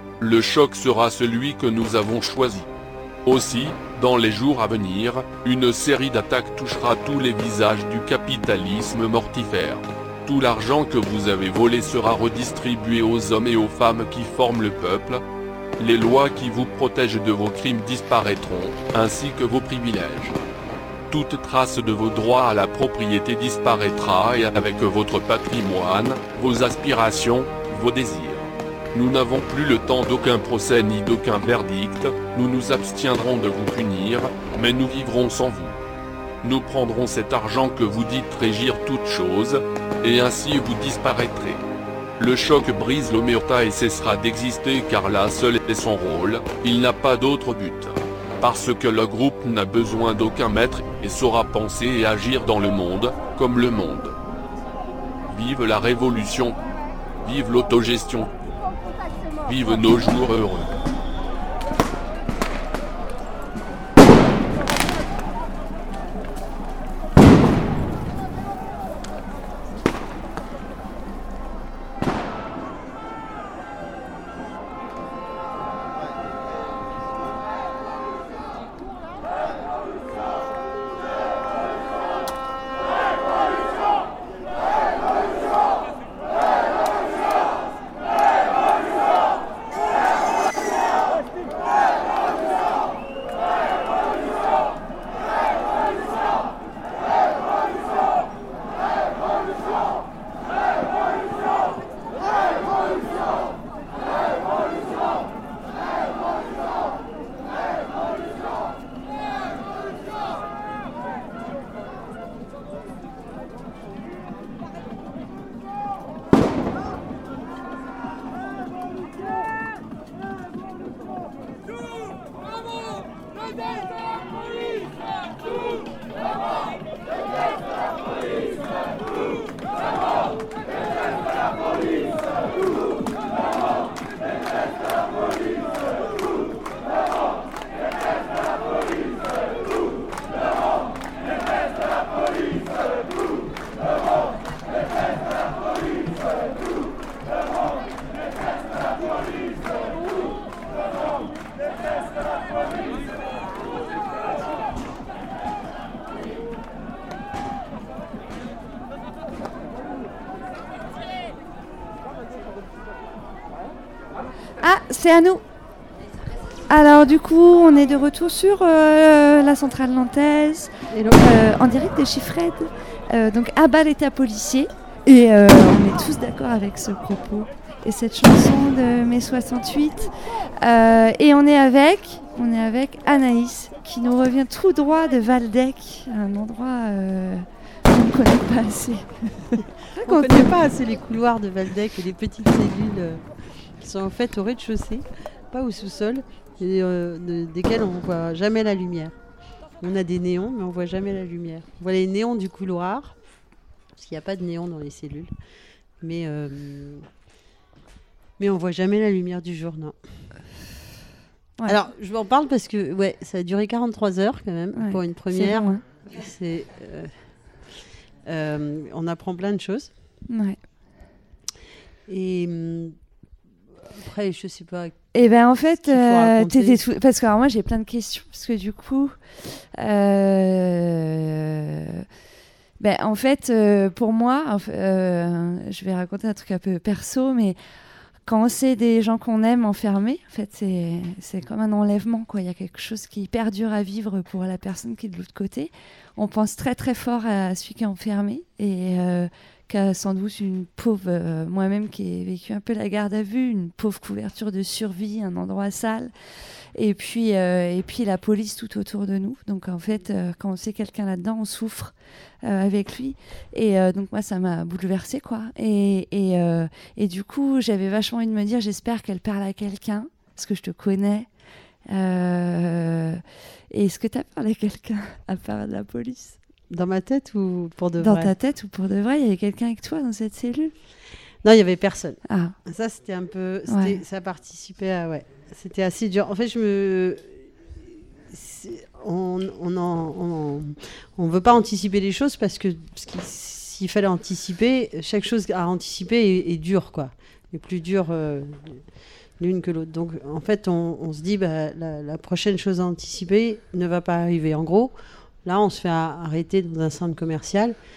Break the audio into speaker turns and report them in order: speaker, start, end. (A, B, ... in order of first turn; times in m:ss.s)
0:00.2-0:02.7 A
0:03.2-0:15.2 A
0:15.8-0:20.4 A
0:21.1-0:35.8 A
0:36.4-0:41.6 A
0:42.2-0:54.2 A
0:55.3-0:56.6 A
0:57.2-0:58.3 A
0:59.4-1:00.7 A
2:44.6-2:45.4 B
2:46.7-3:09.2 B
2:50.9-2:51.3 C
3:10.0-3:13.2 C
3:13.8-3:19.2 C
3:19.8-3:23.2 C
3:24.0-3:25.3 C
3:26.0-3:27.0 C
3:28.4-3:30.0 C
3:31.6-3:37.1 C
3:34.7-3:35.8 B
3:38.2-3:39.9 C
3:40.3-3:40.6 B
3:42.1-3:43.0 C
3:43.9-3:45.0 C
3:45.1-3:52.0 B
3:45.8-3:46.8 C
3:52.8-3:57.6 B
3:58.2-4:16.1 B
4:16.7-4:31.3 B
4:31.9-4:36.4 B
4:36.7-4:38.3 C
4:38.0-4:40.7 B
4:41.4-4:47.4 C
4:42.3-4:42.6 B
4:43.7-4:44.0 B
4:48.3-4:58.8 C
4:59.4-5:07.8 C